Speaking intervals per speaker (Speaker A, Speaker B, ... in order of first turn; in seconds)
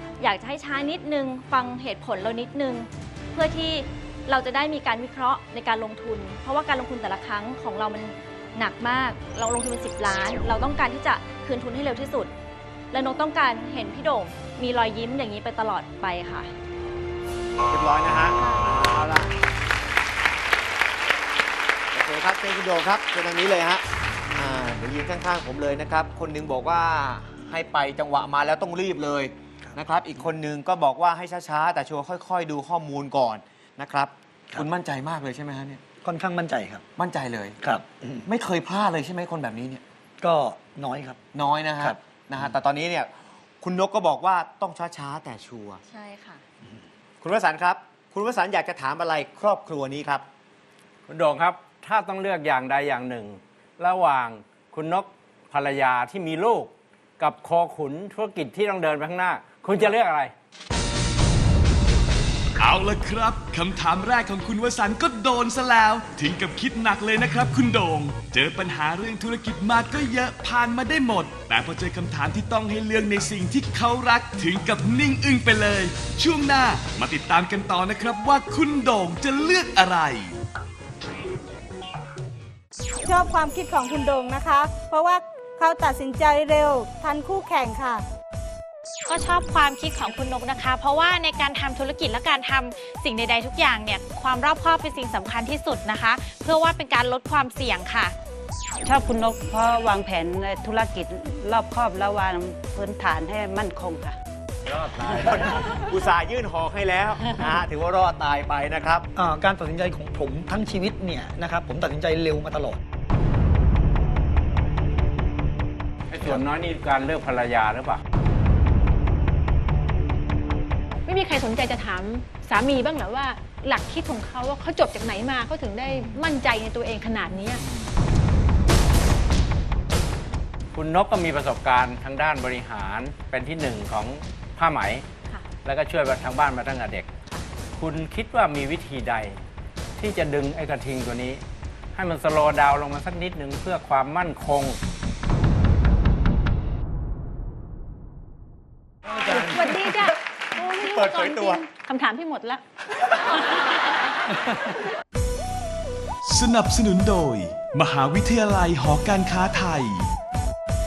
Speaker A: 0.2-12.3, 12.9-16.5, 18.4-18.7, 45.9-46.4
Speaker B: 17.7-19.3, 21.9-23.8, 24.4-35.8, 37.0-37.6, 38.3-39.8, 41.3-43.1, 43.6-45.8, 47.2-50.2, 104.7-109.0, 149.2-149.9, 150.6-151.6
Speaker C: 36.0-36.8, 37.6-38.2, 40.2-41.2, 109.2-112.8
Speaker D: 51.1-60.3, 116.1-118.0, 130.7-135.1, 135.6-137.1, 137.8-139.4, 140.0-141.4, 141.9-144.8
Speaker E: 62.6-80.4, 156.2-160.1
Speaker F: 83.0-88.0
Speaker G: 89.1-98.1
Speaker H: 98.8-104.2
Speaker I: 121.1-127.6, 149.3-152.6